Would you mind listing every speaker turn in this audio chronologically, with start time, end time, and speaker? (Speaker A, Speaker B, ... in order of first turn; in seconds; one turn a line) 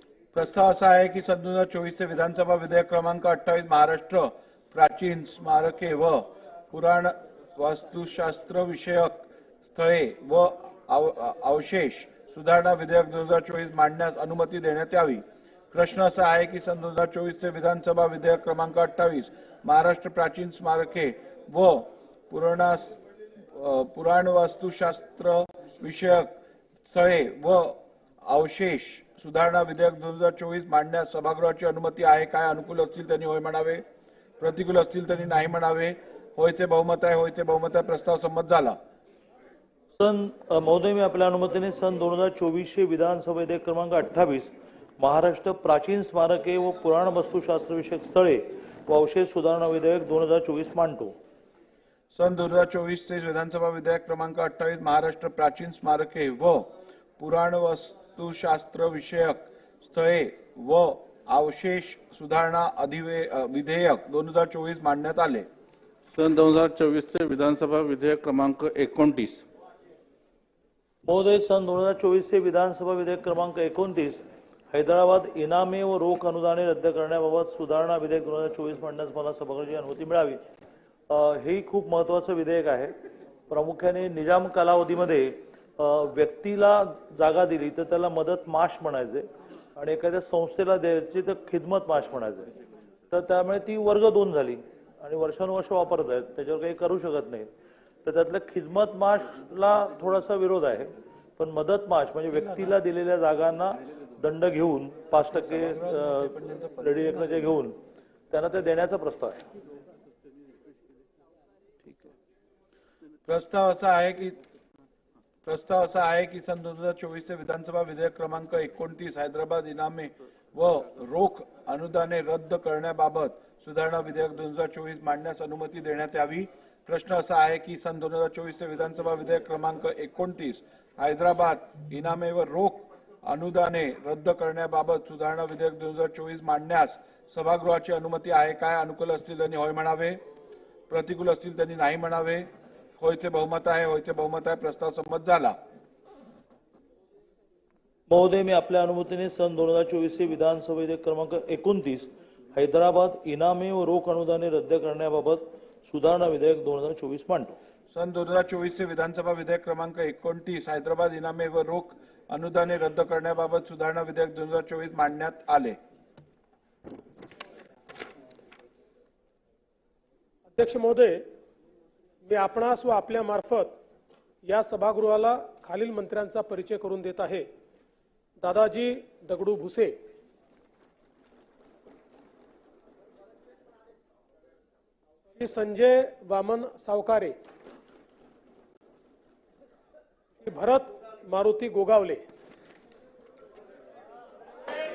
Speaker A: 0.3-22.9
Speaker A: 23.5-26.3
Speaker A: 26.9-33.8
Speaker A: 34.4-38.8
Speaker B: 40.0-51.1
Speaker A: 52.1-65.5
Speaker C: 66.1-69.5
Speaker B: 71.0-80.4
Speaker B: 81.1-82.9
Speaker B: 83.5-92.5
Speaker B: 93.1-97.5
Speaker B: 98.0-107.8
Speaker A: 105.3-107.2
Speaker B: 108.3-109.5
Speaker A: 113.2-114.4
Speaker A: 115.4-140.2
Speaker A: 140.9-145.6
Speaker B: 148.1-157.6
Speaker A: 157.9-165.8
Speaker D: 170.5-171.2
Speaker D: 172.2-173.8
Speaker D: 174.4-177.5
Speaker D: 178.4-179.9
Speaker D: 185.3-187.3
Speaker D: 190.4-192.2